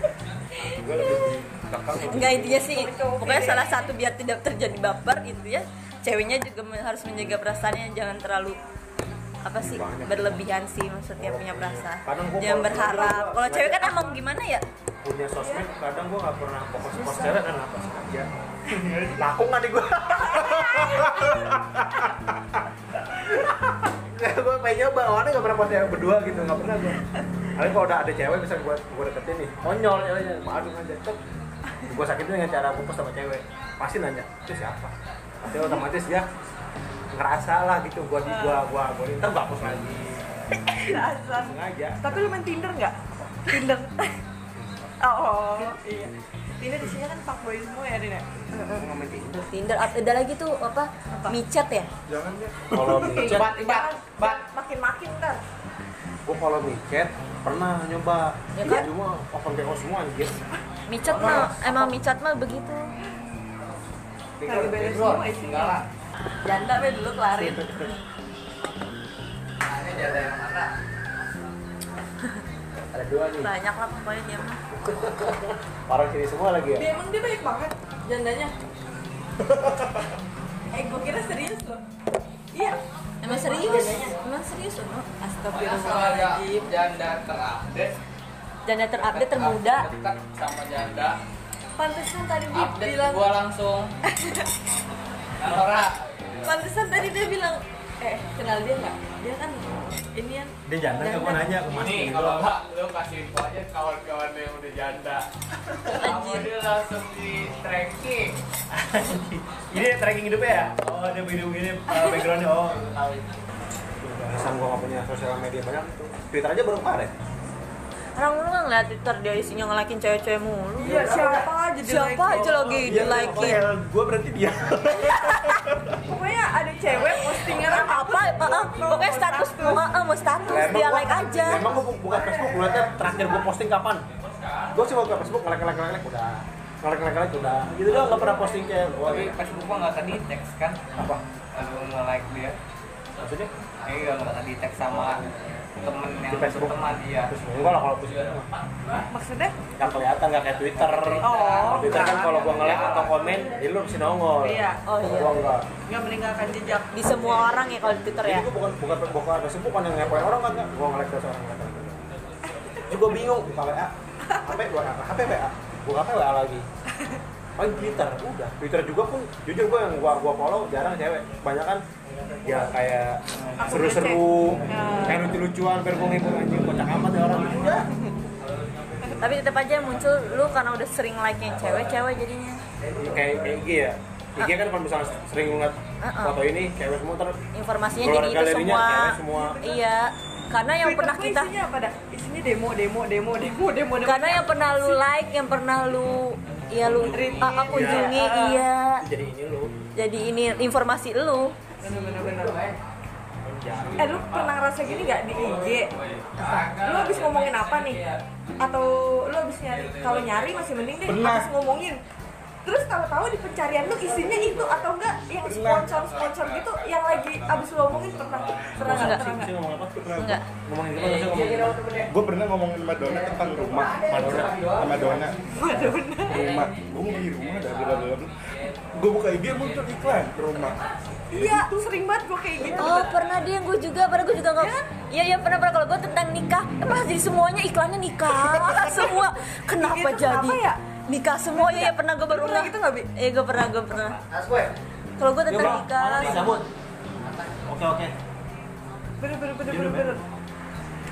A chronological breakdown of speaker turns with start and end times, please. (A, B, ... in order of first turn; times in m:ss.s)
0:00.6-0:01.3 A
0:00.8-0:02.7 B
0:02.0-0:08.6 C
0:02.2-0:03.9 A
0:09.4-0:14.6 C
0:09.6-0:10.4 B
0:11.2-0:14.2 B
0:15.0-0:18.3 B
0:17.1-0:17.4 C
0:18.7-0:19.2 D
0:19.2-0:21.4 B
0:20.4-0:21.4 A
0:23.1-0:27.0 B
0:27.5-0:31.2 B
0:31.8-0:36.3 B
0:37.1-0:42.3 B
0:38.3-0:38.6 A
0:40.5-0:44.2 A
0:45.0-0:48.8 A
0:48.5-0:49.5 B
0:49.5-0:51.9 C
0:52.1-0:53.2 D
0:52.7-0:53.5 B
0:53.0-0:55.4 A
0:53.2-0:54.4 E
0:56.2-1:00.4 B
0:58.6-0:58.9 C
1:00.9-1:02.9 C
1:01.0-1:01.5 B
1:01.1-1:01.5 E
1:01.4-1:01.9 A
1:04.4-1:05.9 E
1:04.4-1:05.8 A
1:06.4-1:07.6 A
1:07.3-1:08.0 B
1:09.6-1:10.8 E
1:12.9-1:13.5 B
1:13.4-1:14.6 C
1:14.7-1:16.9 B
1:16.8-1:18.6 A
1:19.4-1:20.0 B
1:20.7-1:21.8 A
1:22.5-1:24.2 A
1:23.2-1:25.1 C
1:25.2-1:26.7 A
1:25.5-1:28.0 E
1:28.6-1:29.9 C
1:29.0-1:31.2 E
1:31.8-1:33.4 A
1:32.5-1:34.0 E
1:34.1-1:34.5 A
1:35.4-1:36.6 E
1:36.4-1:41.8 A
1:40.7-1:42.6 B
1:41.7-1:45.3 E
1:45.8-1:48.4 E
1:46.0-1:46.5 C
1:48.7-1:53.3 B
1:54.0-1:57.1 B
1:58.2-2:01.0 C
2:00.8-2:03.4 A
2:00.8-2:01.5 B
2:01.8-2:03.7 C
2:02.5-2:05.0 B
2:03.4-2:04.0 D
2:04.8-2:05.9 D
2:05.1-2:05.5 C
2:06.0-2:09.8 A
2:07.5-2:11.7 C
2:10.5-2:14.1 B
2:11.4-2:11.8 A
2:14.3-2:14.9 E
2:14.7-2:19.4 B
2:17.9-2:18.2 E
2:19.0-2:21.0 E
2:21.0-2:21.2 B
2:21.5-2:22.6 E
2:23.2-2:23.5 B
2:23.8-2:29.1 E
2:24.9-2:25.3 B
2:26.3-2:28.5 B
2:29.1-2:29.6 A
2:29.8-2:35.7 B
2:30.4-2:33.4 E
2:31.2-2:32.3 A
2:34.4-2:34.8 A
2:34.8-2:35.5 C
2:35.8-2:37.6 A
2:36.9-2:38.5 C
2:38.2-2:42.0 B
2:42.9-2:46.7 B
2:44.3-2:44.6 A
2:47.6-2:51.8 B
2:52.4-2:57.9 B
2:53.6-2:55.3 A
2:59.2-3:02.6 C
3:02.9-3:07.4 B
3:06.0-3:06.4 C
3:07.5-3:11.5 C
3:08.0-3:09.6 B
3:09.4-3:09.9 A
3:10.8-3:15.0 A
3:14.0-3:19.0 C
3:16.8-3:18.2 B
3:16.9-3:17.4 E
3:17.0-3:18.6 A
3:19.0-3:19.7 B
3:20.0-3:21.6 C
3:21.8-3:22.8 E
3:21.8-3:22.6 A
3:23.4-3:24.2 B
3:23.7-3:28.2 E
3:24.0-3:25.9 A
3:26.4-3:26.7 C
3:26.8-3:28.0 A
3:28.6-3:32.0 A
3:29.7-3:31.2 E
3:31.0-3:31.5 D
3:32.6-3:39.5 A
3:33.9-3:34.9 B
3:35.4-3:35.9 D
3:35.9-3:38.8 E
3:38.8-3:41.8 B
3:38.8-3:39.2 C
3:40.0-3:40.4 D
3:40.1-3:40.4 C
3:41.0-3:42.1 E
3:42.1-3:44.1 D
3:43.0-3:45.6 E
3:43.9-3:45.2 B
3:44.7-3:48.3 D
3:45.4-3:46.6 A
3:46.3-3:51.2 E
3:48.9-3:51.9 D
3:51.3-3:53.2 A
3:52.8-4:04.2 C
3:52.9-3:53.4 E
3:54.6-3:54.9 A
3:58.3-4:00.8 A
4:01.5-4:03.1 A
4:04.3-4:04.7 B
4:05.2-4:06.6 C
4:05.5-4:06.7 B
4:07.2-4:07.5 E
4:07.7-4:08.1 B
4:09.2-4:10.2 A
4:09.7-4:10.2 B